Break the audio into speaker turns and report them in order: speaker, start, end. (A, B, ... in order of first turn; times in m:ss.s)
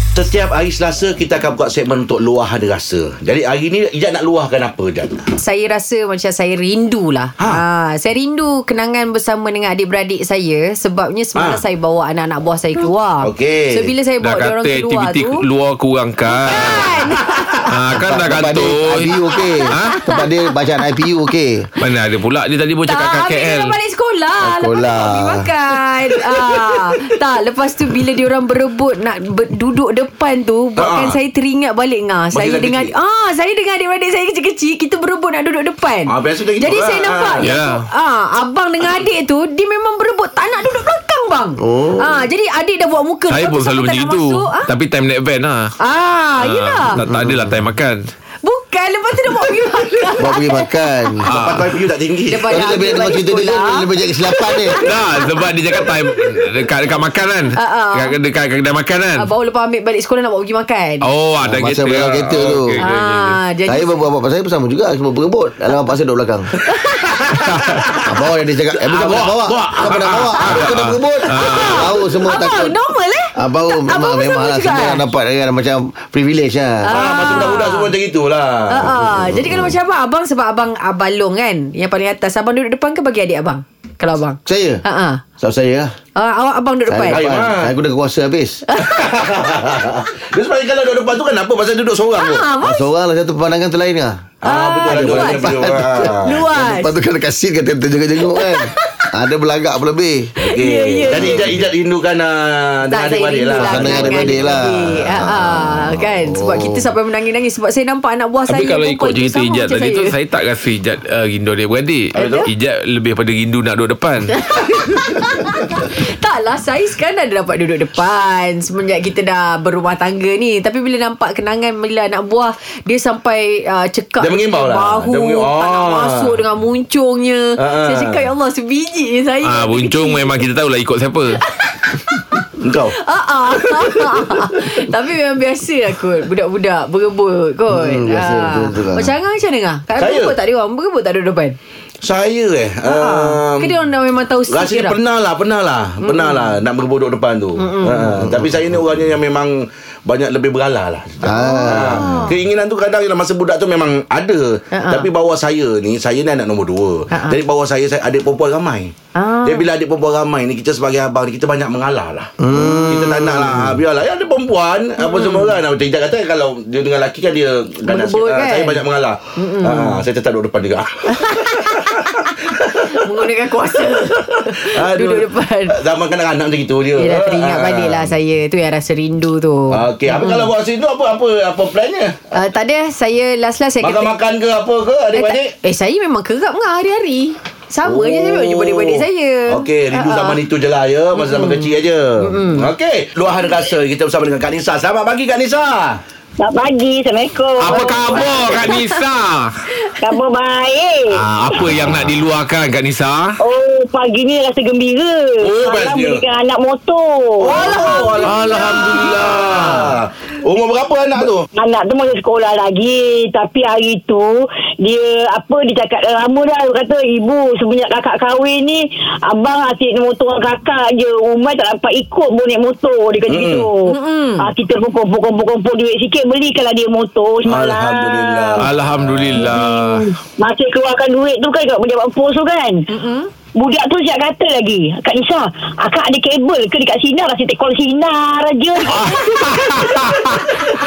0:00.1-0:05.2 A
0:05.4-0:15.4 B
0:11.4-0:11.6 A
0:13.2-0:13.9 A
0:14.2-0:19.1 C
0:16.4-0:17.7 B
0:18.0-0:21.7 D
0:19.7-0:20.2 C
0:19.9-0:20.2 B
0:21.8-0:23.8 C
0:22.8-0:44.7 B
0:24.4-0:25.5 D
0:30.8-0:31.2 A
0:32.3-0:32.9 A
0:36.1-0:37.6 A
0:37.4-0:37.8 C
0:41.6-0:42.2 D
0:43.3-0:45.7 C
0:45.8-0:47.0 B
0:46.4-0:48.0 C
0:47.0-0:47.6 D
0:48.4-0:51.2 B
0:50.2-0:51.3 D
0:51.3-0:51.7 C
0:51.3-0:52.6 A
0:52.3-0:56.5 B
0:52.4-0:54.8 D
0:54.8-0:59.3 C
0:57.6-0:58.2 B
0:59.2-1:01.0 B
1:01.0-1:03.4 C
1:01.4-1:02.8 D
1:02.8-1:03.9 B
1:03.7-1:06.5 D
1:06.7-1:07.2 B
1:07.3-1:07.8 C
1:08.0-1:12.7 D
1:08.9-1:11.9 C
1:10.4-1:10.6 B
1:11.2-1:15.0 B
1:13.4-1:16.9 D
1:16.8-1:17.9 B
1:16.9-1:19.0 A
1:18.7-1:25.2 B
1:19.3-1:19.7 D
1:24.4-1:24.8 D
1:25.4-1:25.9 D
1:26.2-1:27.2 B
1:26.9-1:28.6 D
1:27.1-1:27.7 A
1:28.7-1:29.0 B
1:28.8-1:32.5 A
1:32.2-1:32.8 B
1:32.6-1:34.3 D
1:34.4-1:36.4 A
1:34.4-1:35.4 B
1:34.8-1:40.3 D
1:36.0-1:36.9 B
1:38.2-1:39.1 B
1:40.4-1:44.5 A
1:40.4-1:41.5 B
1:41.1-1:41.5 D
1:42.9-1:50.1 B
1:43.6-1:46.9 D
1:48.5-1:54.4 C
1:52.1-1:52.5 A
1:52.2-1:52.4 B
1:54.4-2:10.3 B
2:04.2-2:06.4 A
2:07.6-2:08.2 A
2:09.4-2:11.4 C
2:11.5-2:12.1 B
2:12.6-2:13.0 A
2:12.9-2:21.6 B
2:13.5-2:14.2 A
2:17.7-2:19.1 D
2:20.0-2:20.3 A
2:22.0-2:23.8 A
2:22.8-2:25.0 B
2:24.5-2:38.9 A
2:26.0-2:26.6 B
2:27.6-2:28.2 B
2:31.2-2:32.3 D
2:31.2-2:32.3 B
2:34.7-2:35.1 B
2:37.1-2:37.4 B
2:39.1-2:39.6 B
2:39.4-2:53.1 A
2:42.4-2:43.8 D
2:42.5-2:43.0 B
2:45.0-2:45.5 B
2:47.9-2:48.8 B
2:49.4-2:50.0 B
2:51.1-2:55.8 B
2:53.8-2:58.1 A
2:57.0-3:00.5 B
2:59.7-3:02.2 A
3:02.3-3:04.1 B
3:03.8-3:05.5 A
3:05.1-3:10.4 B
3:07.8-3:16.0 A
3:11.2-3:11.7 B
3:12.2-3:12.7 B
3:16.4-3:18.4 E
3:17.6-3:19.6 C
3:17.7-3:19.0 B
3:18.1-3:18.6 A
3:20.0-3:21.6 E
3:21.1-3:23.4 C
3:23.4-3:28.4 E
3:25.4-3:26.2 A
3:27.4-3:31.4 A
3:27.6-3:29.0 B
3:28.3-3:29.9 C
3:31.5-3:48.6 E
3:43.3-3:43.7 A
3:43.8-3:44.5 B
3:47.4-3:49.4 A
3:48.6-3:50.1 C
3:49.4-3:52.8 E
3:52.9-3:53.3 B
3:53.6-4:00.4 E
3:59.4-4:00.4 C